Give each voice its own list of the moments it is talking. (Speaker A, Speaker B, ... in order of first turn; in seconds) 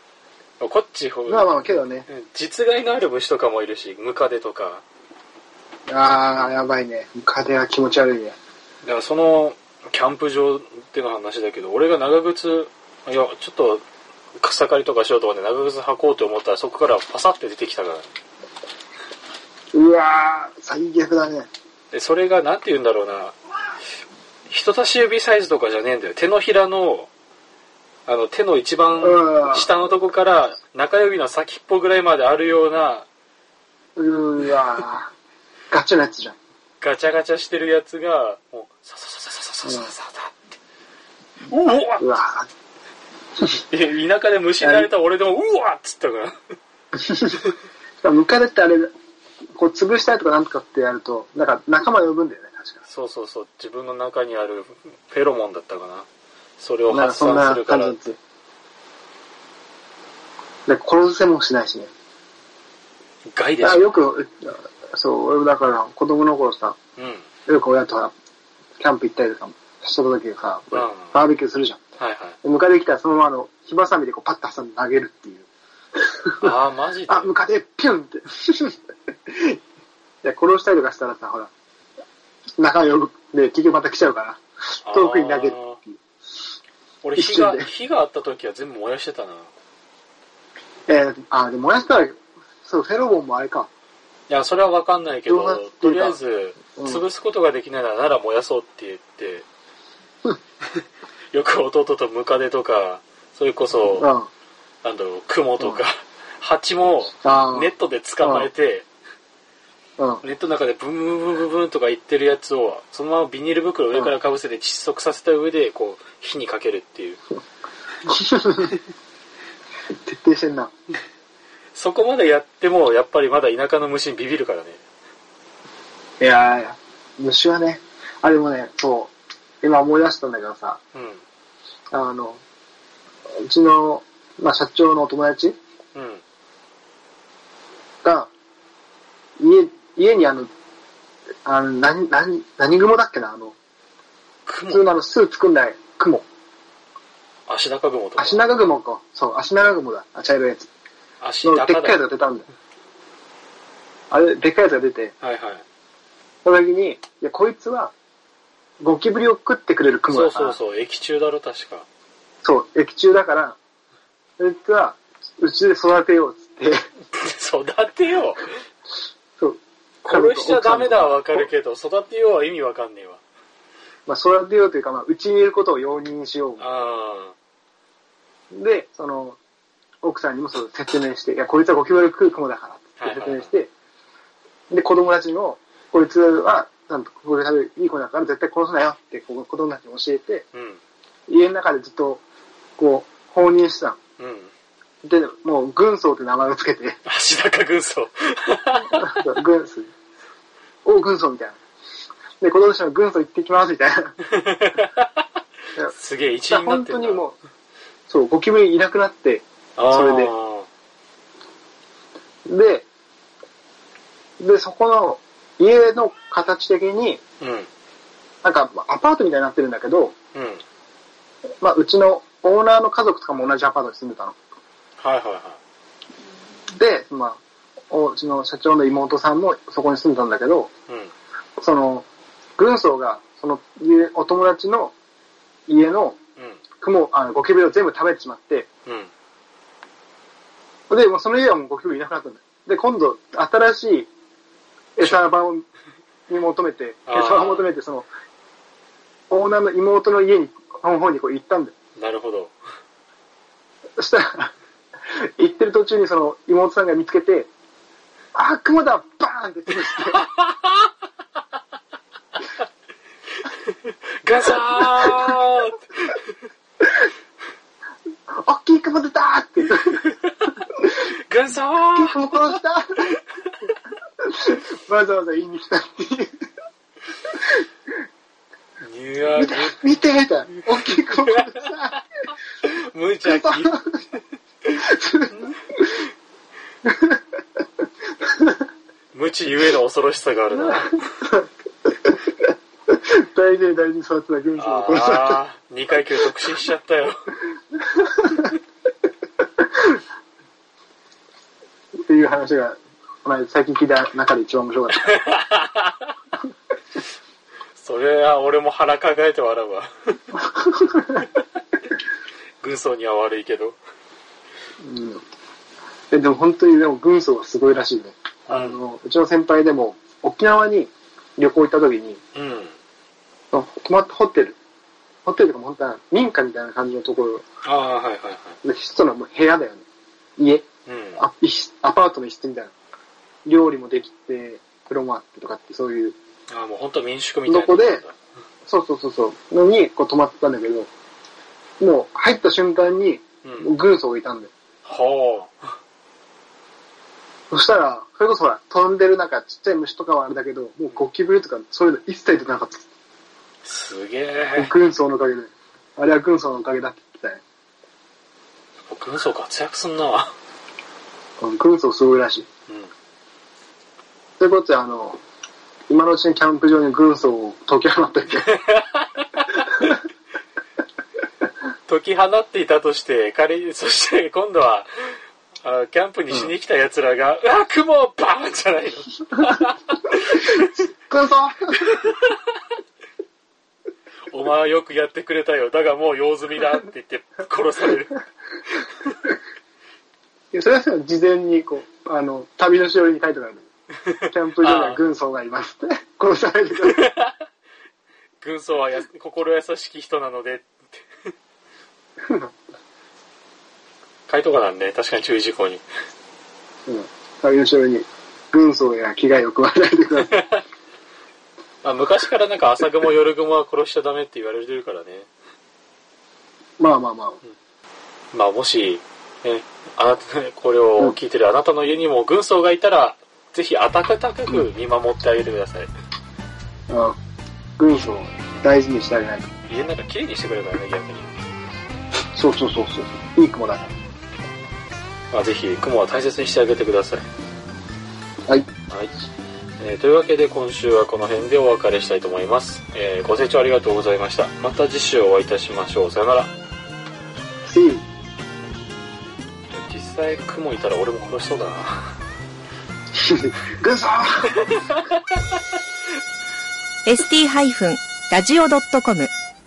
Speaker A: 0.6-1.5, 2.1-4.8, 8.8-13.8, 14.4-18.1, 21.9-23.3, 24.5-27.1, 28.1-33.1, 36.8-40.6, 41.5-42.2, 43.6-46.4, 52.9-56.1, 56.6-58.0, 63.3-63.9, 67.0-67.2, 70.7-71.2, 72.0-72.4, 76.4-77.3, 84.8-85.8, 87.0-89.5, 94.3-99.4, 101.3-104.1, 104.8-108.8, 110.2-117.2, 121.7-124.8, 130.9-131.2, 135.9-136.2, 144.4-144.9, 147.5-148.5, 151.2-152.0, 155.2-155.6, 160.1-161.8, 167.2-168.4, 170.0-173.2, 176.6-177.3, 183.0-183.5, 190.5-190.8, 194.2-194.5, 197.0-199.3, 204.3-205.2, 205.9-207.2, 209.8-210.7, 217.4-217.7, 220.3-220.6, 225.0-225.6, 236.4-236.6, 238.8-239.1, 247.1-247.7, 252.0-252.5, 260.2-260.9, 263.4-266.3, 270.0-270.5, 271.0-272.6, 278.8-279.8, 281.4-281.7, 282.6-283.8, 289.1-291.1, 294.6-297.2, 305.0-306.1, 307.8-310.2, 312.6-313.8, 318.5-318.8, 322.3-322.8, 327.6-328.6, 330.9-331.2, 336.5-338.1, 343.4-343.7, 344.9-345.6, 353.6-354.7, 358.9-360.3, 368.6-370.0, 371.9-380.8, 381.9-382.3, 384.3-388.2, 394.6-395.0, 396.9-397.3, 398.4-401.0, 404.3-405.8, 410.3-410.6, 411.8-415.3, 418.3-425.9, 429.7-431.4, 435.3-437.2, 438.9-439.1, 439.8-446.5, 449.7-452.1
Speaker B: 1.2-2.1, 5.9-8.4, 19.7-21.5, 29.0-29.7, 34.0-35.1, 35.7-36.4, 39.6-39.9, 42.0-42.5, 44.6-44.9, 47.0-47.4, 48.0-48.9, 49.5-52.8, 56.9-58.2, 60.7-61.9, 63.6-66.8, 67.5-68.1, 68.8-71.8, 72.4-75.5, 76.2-76.6, 77.1-78.7, 79.3-79.6, 80.2-81.5, 82.6-86.0, 87.2-87.7, 90.9-93.7, 95.2-96.2, 96.7-97.0, 104.0-104.3, 107.2-107.7, 108.2-108.5, 118.0-118.7, 120.0-120.7, 126.2-130.8, 131.9-132.4, 133.4-135.6, 138.0-138.3, 139.4-140.5, 141.4-143.6, 144.7-146.2, 148.2-150.7, 151.4-152.5, 154.1-155.1, 156.4-157.9, 158.8-160.6, 162.4-163.6, 164.4-166.8, 169.4-171.5, 174.1-176.7, 178.5-179.4, 180.0-183.7, 184.7-190.4, 191.3-192.2, 192.8-194.0, 195.0-197.0, 198.9-199.9, 200.8-201.6, 202.4-204.1, 206.5-207.3, 208.1-210.3, 212.5-212.8, 214.4-217.2, 218.4-220.1, 221.6-224.3, 226.8-227.4, 227.9-230.7, 231.6-232.0, 232.6-234.9, 235.7-236.2, 236.8-238.7, 240.9-244.1, 244.9-245.6, 246.3-248.1, 249.3-251.7, 254.0-254.5, 255.4-257.5, 258.3-260.2, 268.4-270.1, 271.9-273.1, 274.2-276.3, 279.3-282.0, 283.2-284.0, 284.7-286.0, 286.9-287.2, 290.6-291.4, 292.9-295.4, 297.9-298.5, 302.1-305.1, 310.6-311.2, 314.8-315.2, 316.1-322.2, 323.5-324.6, 325.2-327.4, 328.6-329.8, 330.4-332.7, 333.4-336.1, 337.4-338.0, 338.6-340.9, 341.8-344.5, 347.5-352.8, 354.5-357.4, 361.4-362.4, 364.4-365.2, 365.9-368.6, 381.1-381.8, 390.5-393.6, 394.3-397.1, 406.9-410.4, 416.8-417.4, 426.9-427.1, 427.8-429.5, 432.3-433.9, 447.7-448.0, 453.2-454.7
Speaker C: 457.1-459.3